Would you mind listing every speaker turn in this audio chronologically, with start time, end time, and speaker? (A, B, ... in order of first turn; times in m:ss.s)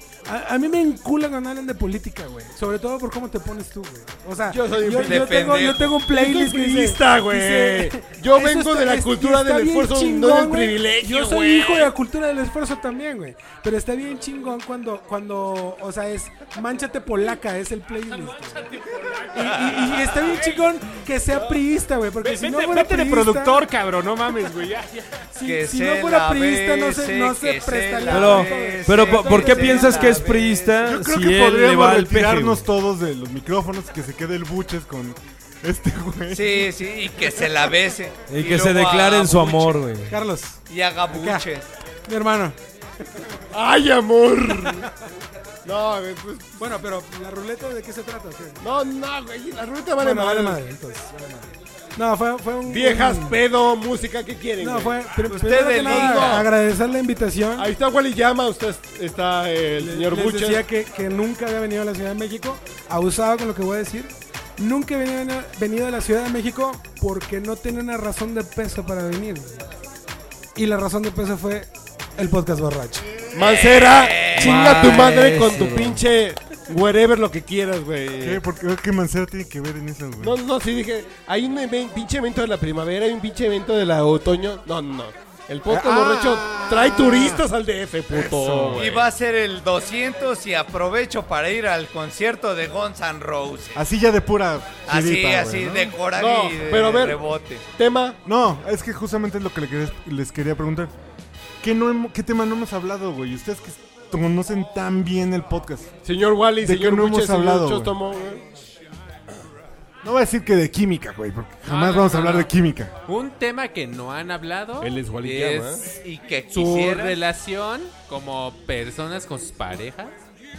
0:00.3-0:18.7 A
0:04.5-0:11.9 B
0:05.0-0:06.0 C
0:18.6-0:20.6 D
0:19.3-0:23.7 A
0:22.2-0:25.3 D
0:25.3-0:30.3 A
0:25.4-0:31.0 C
0:28.1-0:32.7 E
0:30.8-0:37.6 F
0:36.3-0:39.9 C
0:38.3-0:40.2 E
0:40.1-0:41.5 A
0:40.7-0:41.7 C
0:42.1-0:42.6 A
0:43.5-0:44.9 B
0:45.6-0:46.6 B
0:46.6-0:48.6 A
0:48.6-0:50.6 B
0:50.0-0:53.4 A
0:52.6-0:55.1 B
0:54.6-0:57.7 A
0:55.3-0:56.5 C
0:55.8-0:56.5 B
0:57.6-1:00.7 B
0:59.8-1:09.6 A
1:10.6-1:13.2 A
1:13.3-1:18.4 B
1:13.4-1:15.2 C
1:18.2-1:20.4 F
1:20.2-1:29.0 B
1:25.7-1:27.4 F
1:28.1-1:29.0 F
1:28.8-1:33.8 C
1:33.8-1:36.0 F
1:34.9-1:37.7 C
1:36.1-1:37.3 B
1:37.8-1:38.2 B
1:38.2-1:40.9 F
1:41.6-1:45.9 F
1:46.0-1:48.4 B
1:46.6-1:48.0 F
1:50.0-1:52.9 F
1:51.6-1:52.5 G
1:53.1-1:55.8 G
1:54.8-1:55.9 B
1:56.0-1:57.2 C
1:56.5-2:00.2 G